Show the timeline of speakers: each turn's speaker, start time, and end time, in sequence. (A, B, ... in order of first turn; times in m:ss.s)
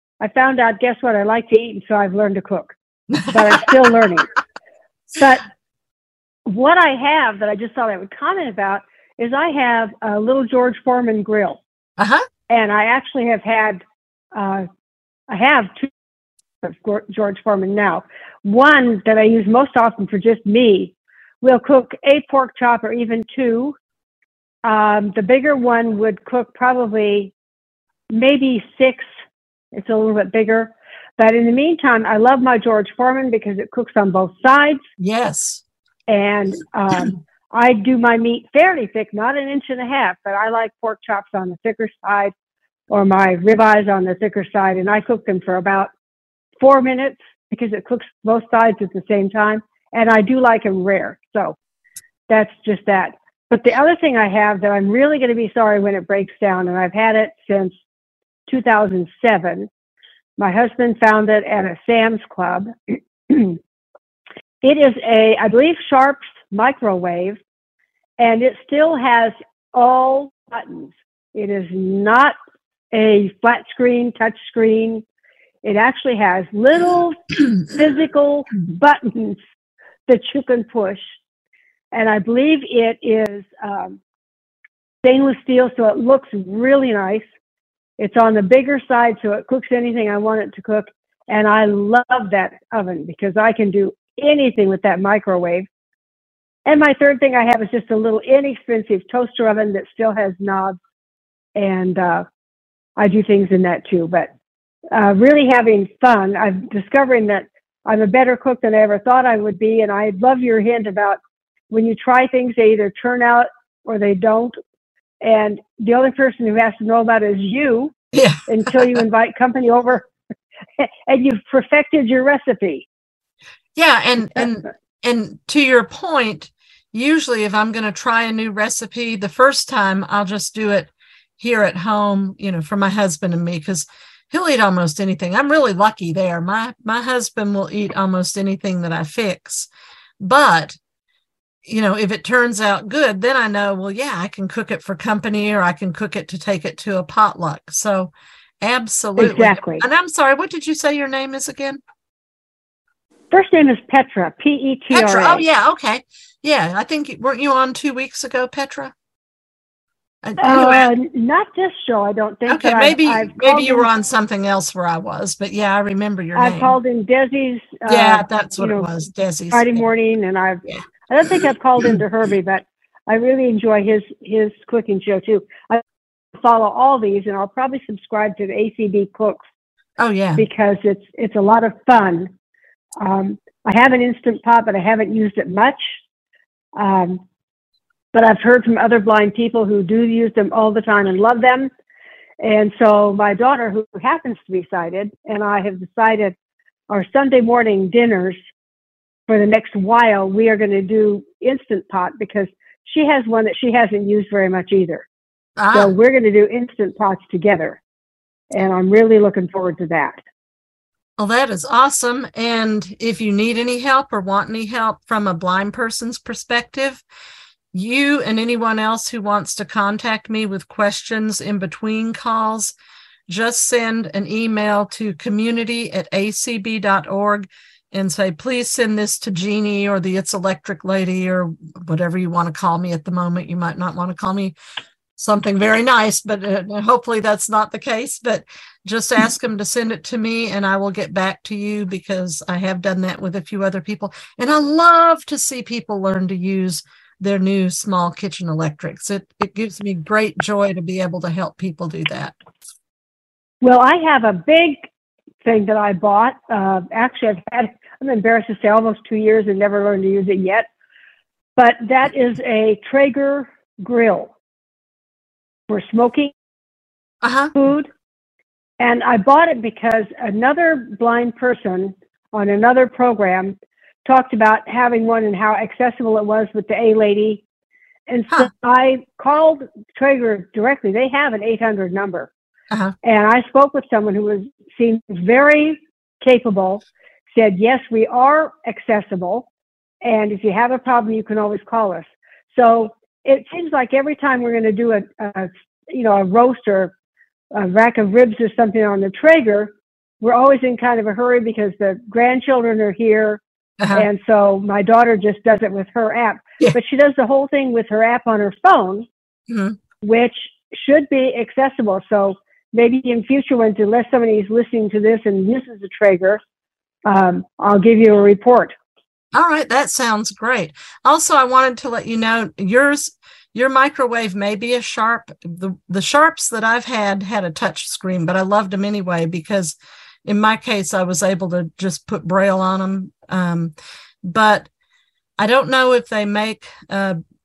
0:00.2-0:02.7 A
0:03.3-0:04.3 A
0:05.2-0:05.4 A
0:06.5-0:11.6 A
0:12.0-0:12.2 B
0:12.5-0:13.8 A
0:14.3-0:14.7 A
0:15.3-0:15.9 A
0:16.6-0:23.8 A
0:24.6-0:27.3 A
0:28.1-0:29.1 A
0:29.7-0:34.8 A
0:35.0-0:35.6 B
0:36.1-0:42.3 A
0:42.9-0:45.9 A
0:46.6-0:51.6 A
0:52.3-0:57.8 A
0:58.5-0:59.7 A
1:00.4-1:03.6 A
1:04.6-1:07.4 A
1:08.2-1:12.4 A
1:12.9-1:15.0 A
1:15.6-1:19.4 A
1:20.1-1:21.1 A
1:21.9-1:24.0 A
1:25.0-1:27.3 A
1:28.0-1:35.7 A
1:36.7-1:40.8 A
1:41.6-1:42.3 A
1:43.0-1:44.3 A
1:44.9-1:51.2 A
1:51.7-1:54.6 A
1:55.2-1:58.0 A
1:58.1-1:59.0 B
1:58.5-2:00.1 A
2:00.8-2:02.9 A
2:03.8-2:19.7 B
2:20.2-2:20.8 B
2:21.7-2:28.1 B
2:28.6-2:31.8 B
2:29.2-2:29.8 A
2:33.3-2:35.5 A
2:34.9-2:38.9 B
2:40.2-2:40.9 B
2:40.4-2:43.9 A
2:42.5-2:46.8 B
2:46.4-2:48.9 A
2:47.9-2:49.9 B
2:49.5-2:55.8 A
2:50.6-2:52.0 B
2:56.4-2:59.4 A
3:00.0-3:00.5 B
3:00.4-3:02.3 A
3:03.0-3:05.9 A
3:06.8-3:07.2 A
3:08.1-3:11.7 A
3:12.4-3:16.4 A
3:16.9-3:18.4 A
3:19.3-3:25.1 A
3:25.6-3:25.9 B
3:25.7-3:27.8 A
3:28.5-3:30.2 A
3:31.2-3:37.0 B
3:37.7-3:42.7 B
3:43.3-3:54.6 B
3:55.2-4:12.4 B
4:13.6-4:14.9 A
4:15.4-4:20.7 A
4:21.6-4:24.3 A
4:25.7-4:26.3 A
4:27.2-4:27.5 B
4:27.6-4:27.9 A
4:28.8-4:37.4 A
4:38.1-4:42.3 A
4:43.0-4:49.5 A
4:50.0-4:56.9 A
4:57.5-5:03.4 A
5:03.8-5:04.1 B
5:03.9-5:09.1 A
5:09.5-5:09.8 B
5:10.0-5:16.4 A
5:17.1-5:18.8 A
5:19.3-5:33.7 B
5:34.2-5:34.7 B
5:35.4-5:37.2 B